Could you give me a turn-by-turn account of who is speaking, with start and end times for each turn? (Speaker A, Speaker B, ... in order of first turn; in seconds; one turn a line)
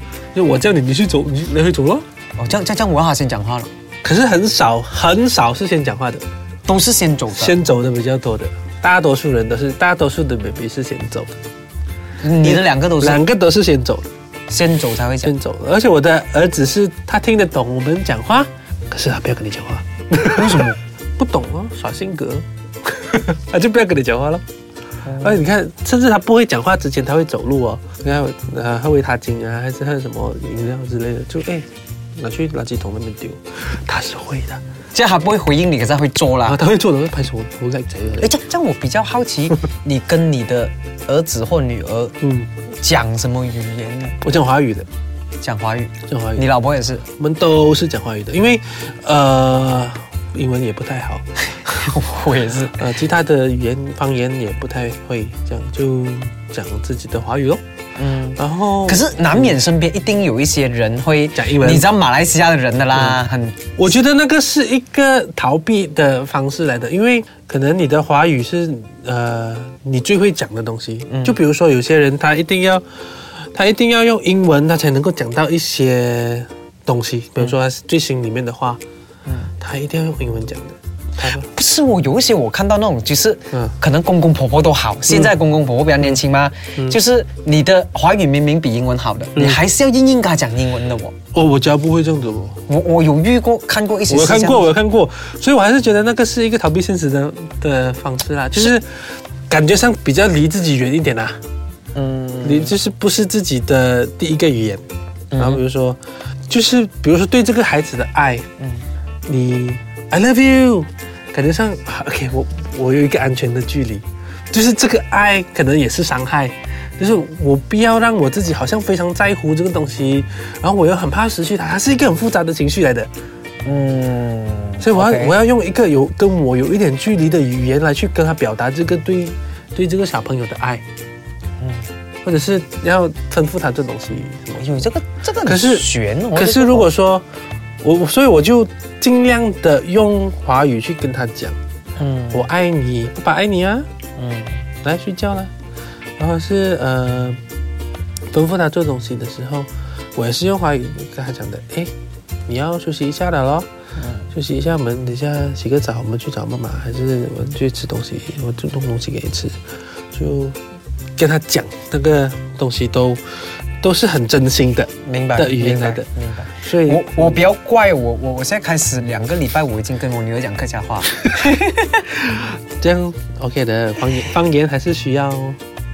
Speaker A: 0.3-2.0
Speaker B: 2.4-3.7
Speaker A: 4.0-6.2
Speaker B: 6.7-7.6
Speaker A: 7.3-11.4
Speaker B: 12.2-13.2
Speaker A: 12.4-14.1
Speaker B: 14.5-15.3
Speaker A: 15.2-24.4
Speaker B: 20.3-20.8
Speaker B: 25.0-25.5
Speaker A: 25.2-34.6
Speaker B: 34.9-36.6
Speaker A: 36.4-38.3
Speaker B: 38.2-42.1
Speaker A: 42.2-42.5
Speaker B: 42.7-44.2
Speaker A: 44.2-44.9
Speaker B: 45.4-47.0
Speaker A: 46.1-46.5
Speaker A: 47.0-52.0
Speaker B: 51.6-52.8
Speaker A: 52.7-57.6
Speaker B: 58.0-63.8
Speaker A: 58.3-59.6
Speaker A: 61.3-61.9
Speaker A: 62.9-63.2
Speaker A: 63.8-78.8
Speaker B: 71.1-71.4
Speaker B: 79.2-79.5
Speaker A: 79.6-81.5
Speaker B: 81.4-91.2
Speaker A: 83.5-83.8
Speaker A: 89.3-89.6
Speaker A: 91.3-92.6
Speaker B: 92.7-94.7
Speaker A: 94.1-98.8
Speaker A: 99.5-101.4
Speaker B: 101.9-102.8
Speaker A: 102.4-104.8
Speaker B: 105.3-105.6
Speaker A: 105.3-108.5
Speaker B: 108.6-108.8
Speaker A: 109.2-123.1
Speaker B: 123.6-125.3
Speaker A: 124.8-130.8
Speaker B: 131.6-131.9
Speaker A: 132.2-134.9
Speaker B: 134.6-136.9
Speaker A: 135.4-137.2
Speaker A: 137.8-141.6
Speaker B: 141.9-142.5
Speaker A: 142.3-143.9
Speaker B: 144.2-144.6
Speaker A: 144.8-145.5
Speaker A: 146.2-147.4
Speaker A: 148.3-151.9
Speaker A: 152.5-153.7
Speaker B: 153.9-154.3
Speaker A: 154.3-159.6
Speaker A: 160.1-160.6
Speaker A: 161.2-163.2
Speaker A: 163.8-167.4
Speaker B: 165.0-172.1
Speaker A: 172.1-175.6